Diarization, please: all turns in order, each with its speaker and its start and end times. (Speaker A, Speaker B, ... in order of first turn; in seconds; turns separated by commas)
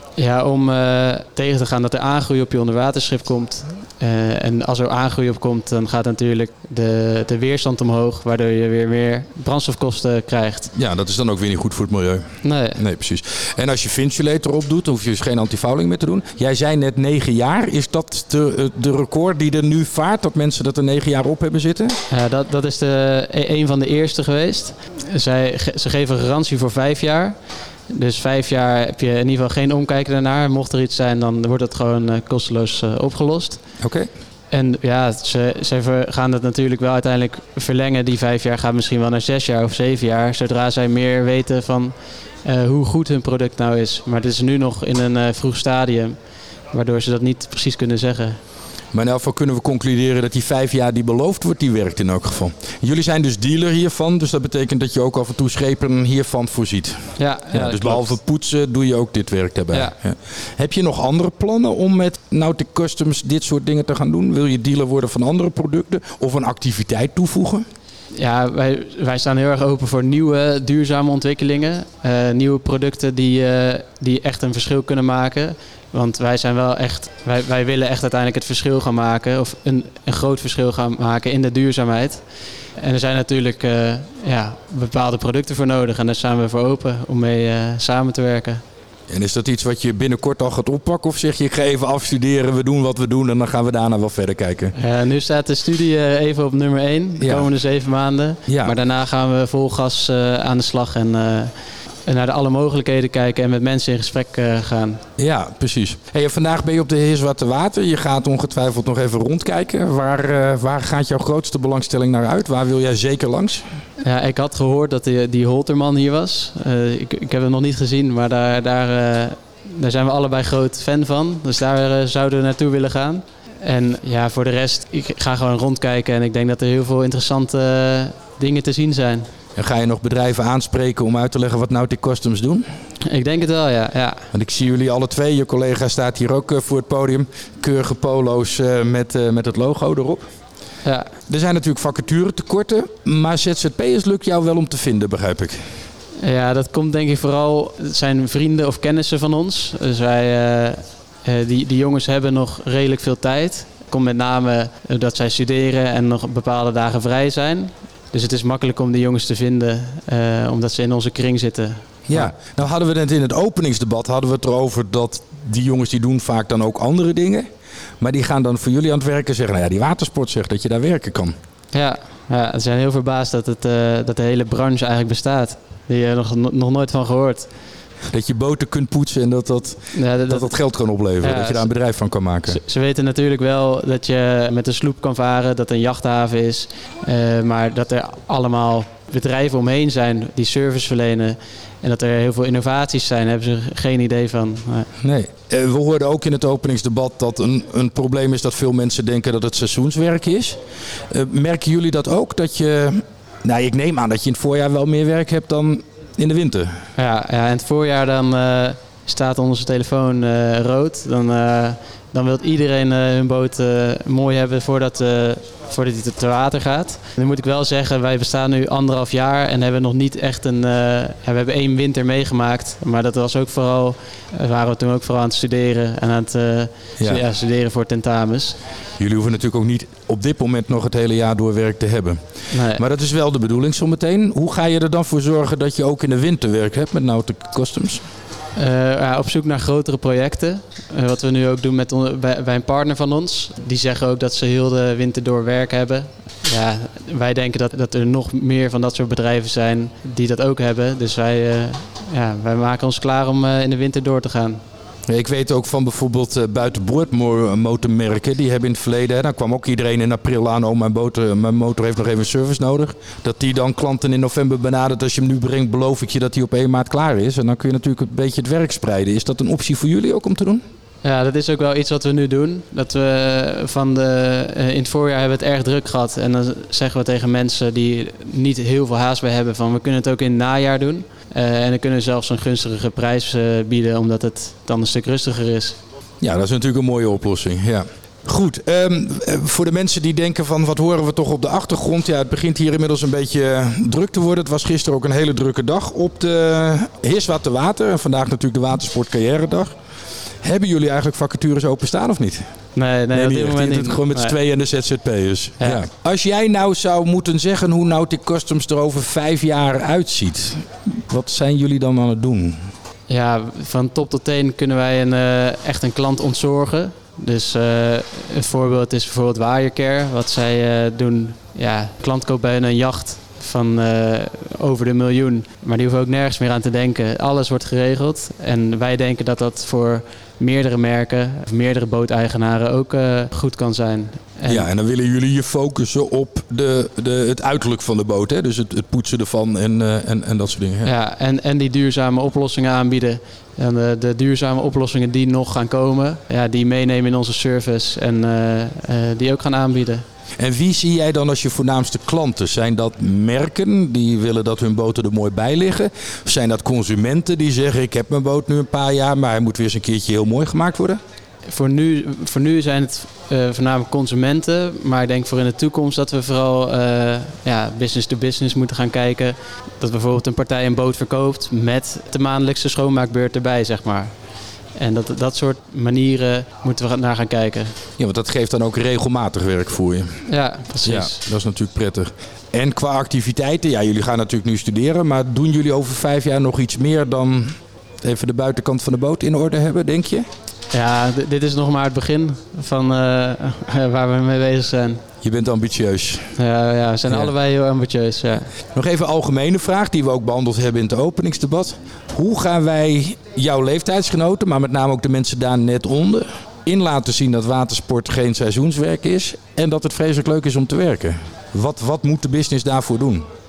Speaker A: 0.2-10.7, Speaker B: 10.7-22.0, Speaker A: 12.4-12.8, Speaker A: 22.1-27.4, Speaker A: 27.9-33.6, Speaker B: 33.8-34.1, Speaker A: 34.5-46.1, Speaker A: 46.7-48.4, Speaker B: 48.9-67.7, Speaker A: 57.2-58.1, Speaker A: 68.2-82.2, Speaker A: 82.8-88.6, Speaker B: 89.1-94.7, Speaker A: 94.8-101.5, Speaker B: 97.2-97.5, Speaker B: 98.5-98.7, Speaker A: 102.0-105.0, Speaker B: 105.2-113.7, Speaker A: 114.0-129.3, Speaker B: 129.6-132.7, Speaker A: 133.0-134.2, Speaker B: 134.3-140.2, Speaker B: 141.3-145.6, Speaker A: 146.2-162.3, Speaker B: 162.1-167.5, Speaker B: 168.0-171.3, Speaker A: 171.7-177.5, Speaker B: 178.1-182.6, Speaker A: 179.9-180.5, Speaker A: 181.2-181.7, Speaker A: 182.5-194.9, Speaker B: 195.0-206.8, Speaker A: 206.9-228.6, Speaker B: 229.0-238.0, Speaker A: 232.5-232.8, Speaker A: 238.6-254.6, Speaker B: 255.1-270.6, Speaker A: 271.0-285.8, Speaker B: 286.2-299.8, Speaker B: 300.4-302.4, Speaker A: 302.7-304.4, Speaker B: 303.1-312.7, Speaker A: 305.6-305.9, Speaker A: 313.1-334.6, Speaker B: 334.5-340.9, Speaker A: 340.8-350.0, Speaker B: 350.4-361.0, Speaker A: 361.5-374.1, Speaker A: 374.8-377.7, Speaker B: 378.0-380.2, Speaker A: 380.3-381.2, Speaker B: 380.9-390.2, Speaker A: 390.7-395.0, Speaker B: 395.2-396.3, Speaker A: 396.4-398.5, Speaker B: 398.7-413.2